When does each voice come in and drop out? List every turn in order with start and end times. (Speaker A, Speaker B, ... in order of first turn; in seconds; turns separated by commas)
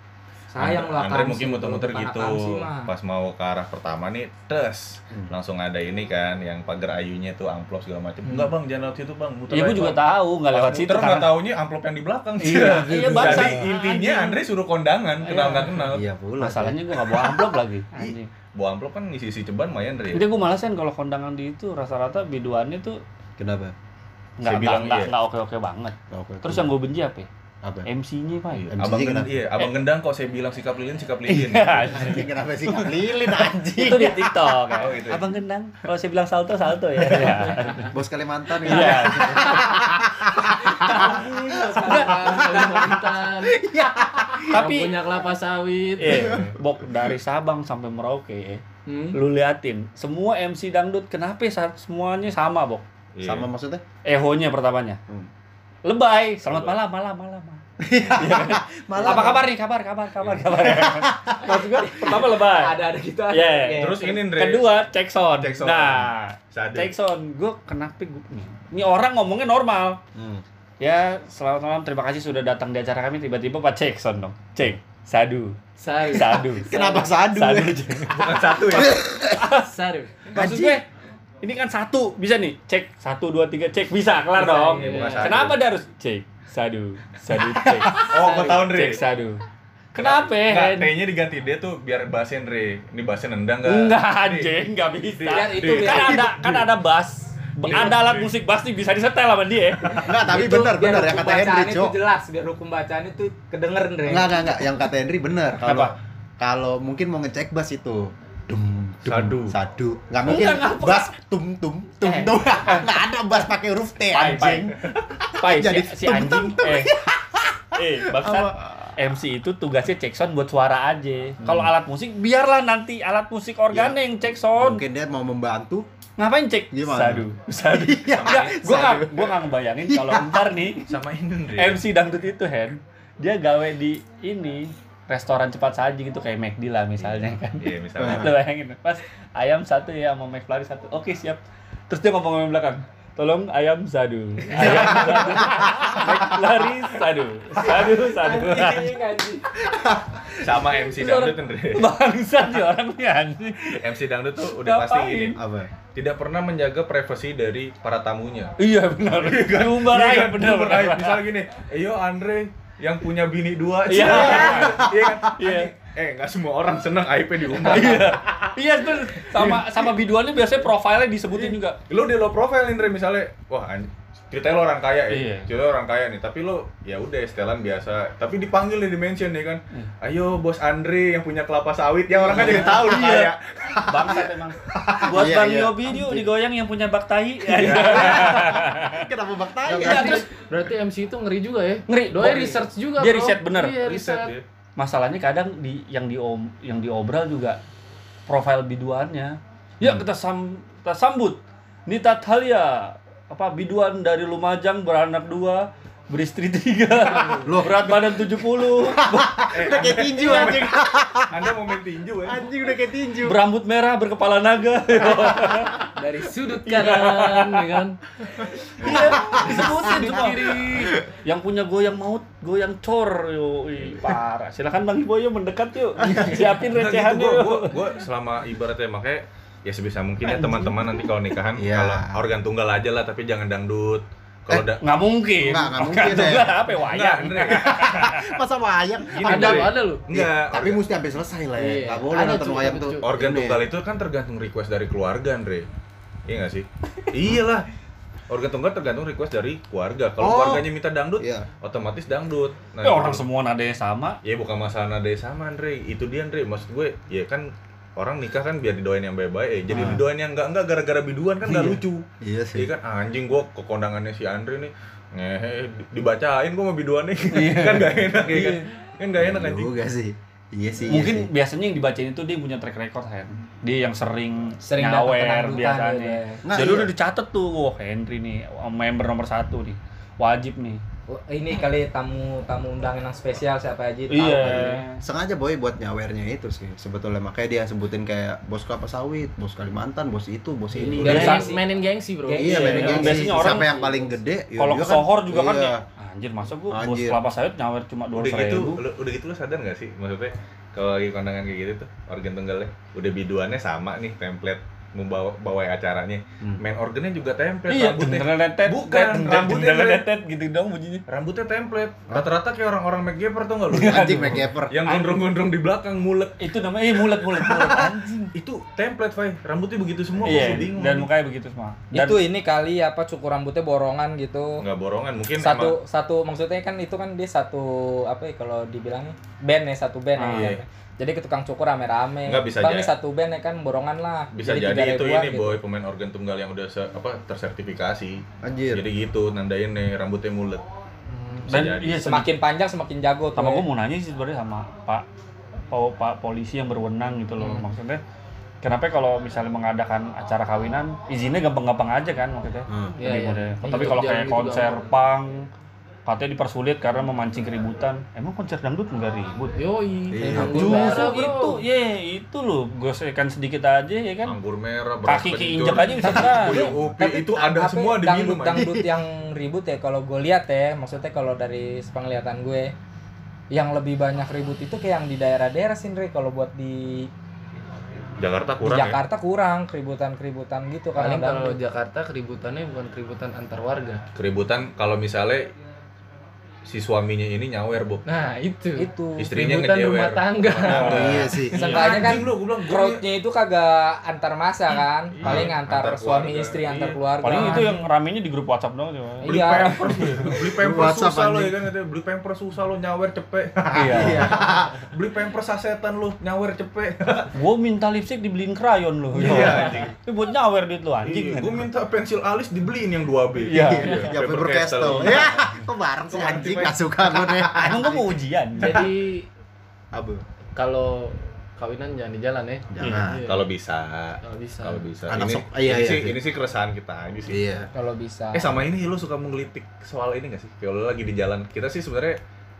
Speaker A: 0.5-2.9, Speaker B: 0.6-16.0, Speaker C: 9.5-11.3, Speaker C: 12.4-14.4, Speaker D: 13.1-13.7, Speaker C: 15.3-18.3, Speaker D: 15.9-17.4, Speaker B: 18.6-20.2, Speaker C: 20.1-23.0, Speaker D: 23.4-23.7, Speaker C: 24.4-27.3, Speaker B: 24.4-25.1, Speaker D: 26.1-26.7, Speaker D: 27.6-27.9, Speaker C: 27.9-28.7, Speaker B: 28.5-32.1, Speaker D: 28.7-29.4, Speaker C: 31.3-38.0, Speaker D: 31.9-34.5, Speaker B: 34.8-35.3, Speaker D: 37.9-44.7, Speaker C: 38.6-40.0, Speaker A: 40.7-42.7, Speaker C: 40.9-41.1, Speaker E: 41.8-43.6, Speaker C: 41.8-42.5, Speaker C: 44.5-45.0, Speaker E: 44.5-46.5, Speaker C: 46.0-52.8, Speaker D: 46.1-46.5, Speaker E: 48.9-49.2, Speaker B: 53.1-53.5, Speaker D: 53.2-53.8, Speaker C: 54.0-55.0, Speaker C: 55.9-57.6, Speaker B: 56.5-56.8, Speaker D: 57.8-59.5, Speaker C: 58.1-70.0, Speaker D: 60.6-61.4, Speaker A: 61.5-64.2, Speaker B: 63.8-64.8, Speaker B: 65.4-66.9, Speaker D: 70.2-70.4, Speaker C: 70.8-79.7, Speaker E: 75.8-77.2, Speaker D: 76.7-78.2, Speaker B: 78.2-79.0, Speaker D: 78.7-79.5, Speaker E: 79.5-80.3, Speaker C: 80.3-80.8, Speaker D: 80.3-80.8, Speaker C: 81.4-89.4, Speaker B: 84.5-85.6, Speaker E: 84.5-85.5, Speaker B: 87.9-89.0, Speaker E: 88.2-88.6, Speaker C: 89.9-90.9, Speaker B: 90.0-94.6, Speaker C: 93.7-100.2, Speaker B: 95.1-96.7, Speaker A: 95.3-96.2, Speaker B: 97.6-98.3, Speaker D: 100.0-102.0, Speaker A: 100.1-104.5, Speaker D: 104.1-118.8, Speaker C: 105.6-105.9, Speaker B: 109.0-109.6, Speaker C: 110.2-111.1, Speaker C: 112.0-113.0, Speaker C: 114.1-114.7, Speaker C: 115.4-117.0, Speaker C: 117.8-124.8, Speaker D: 123.7-125.9, Speaker C: 126.2-130.9, Speaker D: 126.7-130.6, Speaker B: 128.1-128.8, Speaker B: 130.8-131.8, Speaker C: 131.6-149.0, Speaker B: 137.0-138.4, Speaker D: 138.0-138.3, Speaker B: 144.6-145.0, Speaker D: 144.6-146.2, Speaker A: 148.0-149.5, Speaker D: 149.6-150.4, Speaker B: 150.4-151.9, Speaker C: 150.9-155.4, Speaker B: 153.8-155.4, Speaker D: 155.3-155.7, Speaker B: 155.9-158.6, Speaker C: 158.6-161.2, Speaker B: 159.1-168.4, Speaker C: 163.9-165.7, Speaker D: 164.0-165.2, Speaker C: 167.5-171.8, Speaker B: 169.2-169.8, Speaker B: 171.9-184.2, Speaker C: 175.1-175.5, Speaker D: 182.1-183.2, Speaker C: 182.3-183.3, Speaker C: 183.9-189.1, Speaker D: 184.0-186.3, Speaker B: 187.5-188.6, Speaker D: 187.7-190.3, Speaker C: 189.7-190.2, Speaker E: 189.7-194.3, Speaker C: 191.9-193.8, Speaker B: 193.8-194.4, Speaker C: 194.8-197.6, Speaker C: 198.3-209.5, Speaker E: 207.0-207.5, Speaker D: 207.4-211.6, Speaker B: 209.5-212.6, Speaker D: 212.2-213.4, Speaker C: 213.2-215.9, Speaker D: 215.1-215.7, Speaker E: 215.9-221.0, Speaker C: 216.6-217.8, Speaker C: 218.7-227.8, Speaker D: 219.0-219.8, Speaker D: 226.0-226.3, Speaker B: 226.3-234.8, Speaker D: 231.6-232.2, Speaker C: 234.8-238.4, Speaker D: 235.4-236.6, Speaker B: 236.7-238.1, Speaker D: 237.5-243.7, Speaker B: 239.1-240.8, Speaker E: 239.2-240.0, Speaker E: 241.6-243.1, Speaker B: 243.0-245.7, Speaker B: 246.3-247.7, Speaker B: 248.3-253.2, Speaker D: 250.2-251.5, Speaker C: 252.8-254.2, Speaker B: 254.2-262.0, Speaker C: 259.7-260.0, Speaker C: 261.5-261.8, Speaker D: 262.2-262.7, Speaker B: 262.6-269.7, Speaker C: 267.3-268.6, Speaker D: 269.2-271.3, Speaker C: 270.9-280.8, Speaker A: 274.6-276.4, Speaker D: 276.5-276.9, Speaker A: 281.1-284.8, Speaker C: 284.1-285.0, Speaker D: 285.0-291.5, Speaker E: 290.8-294.1, Speaker C: 290.8-291.5, Speaker A: 291.0-291.7, Speaker A: 292.2-293.2, Speaker D: 292.4-295.8, Speaker C: 292.4-293.8, Speaker C: 294.6-298.8, Speaker D: 296.7-297.2, Speaker B: 298.1-310.1, Speaker C: 307.7-311.0, Speaker B: 311.1-316.5, Speaker C: 313.7-315.2, Speaker D: 313.8-314.8, Speaker C: 316.4-318.3, Speaker B: 317.0-317.8, Speaker B: 318.4-321.1, Speaker C: 320.2-322.2, Speaker A: 321.9-324.6, Speaker B: 324.6-325.8, Speaker A: 325.4-335.6, Speaker C: 330.2-330.6, Speaker B: 330.3-330.6, Speaker B: 332.3-332.9, Speaker B: 334.3-340.6, Speaker D: 338.4-338.9, Speaker A: 341.1-341.5, Speaker B: 341.5-342.1, Speaker C: 341.5-342.3, Speaker A: 342.0-343.6, Speaker C: 343.4-345.1, Speaker C: 345.7-348.0, Speaker C: 348.6-355.5, Speaker D: 352.7-353.0, Speaker E: 353.0-354.8, Speaker C: 356.1-359.6, Speaker E: 359.6-361.6, Speaker D: 360.1-361.1, Speaker C: 360.3-364.4, Speaker B: 364.2-368.7, Speaker C: 365.1-366.7, Speaker A: 366.1-372.7, Speaker D: 366.5-367.0, Speaker D: 368.6-368.9, Speaker A: 373.5-377.1, Speaker B: 378.2-379.0, Speaker A: 378.6-381.6, Speaker E: 381.0-384.0, Speaker B: 384.1-385.5, Speaker B: 386.7-388.0, Speaker E: 388.1-391.4, Speaker A: 388.8-389.3, Speaker B: 389.2-393.0, Speaker D: 390.7-391.6, Speaker C: 391.5-392.2, Speaker A: 391.5-397.8, Speaker B: 395.2-397.6, Speaker D: 395.2-395.5, Speaker C: 397.2-400.3, Speaker A: 399.2-400.1, Speaker B: 399.2-407.3, Speaker D: 400.3-401.6, Speaker C: 403.7-404.4, Speaker D: 403.8-404.8, Speaker C: 407.4-411.7, Speaker B: 409.1-409.9, Speaker D: 409.2-409.9, Speaker B: 411.0-415.5, Speaker C: 413.5-414.1, Speaker D: 413.5-418.2, Speaker B: 416.1-417.5, Speaker C: 417.5-418.9, Speaker E: 418.6-419.3, Speaker D: 419.9-420.2, Speaker E: 420.6-423.5, Speaker D: 422.7-423.2, Speaker B: 423.2-427.4, Speaker E: 424.2-424.8, Speaker D: 425.1-426.2, Speaker D: 427.3-427.7, Speaker A: 427.8-428.5, Speaker B: 428.3-432.2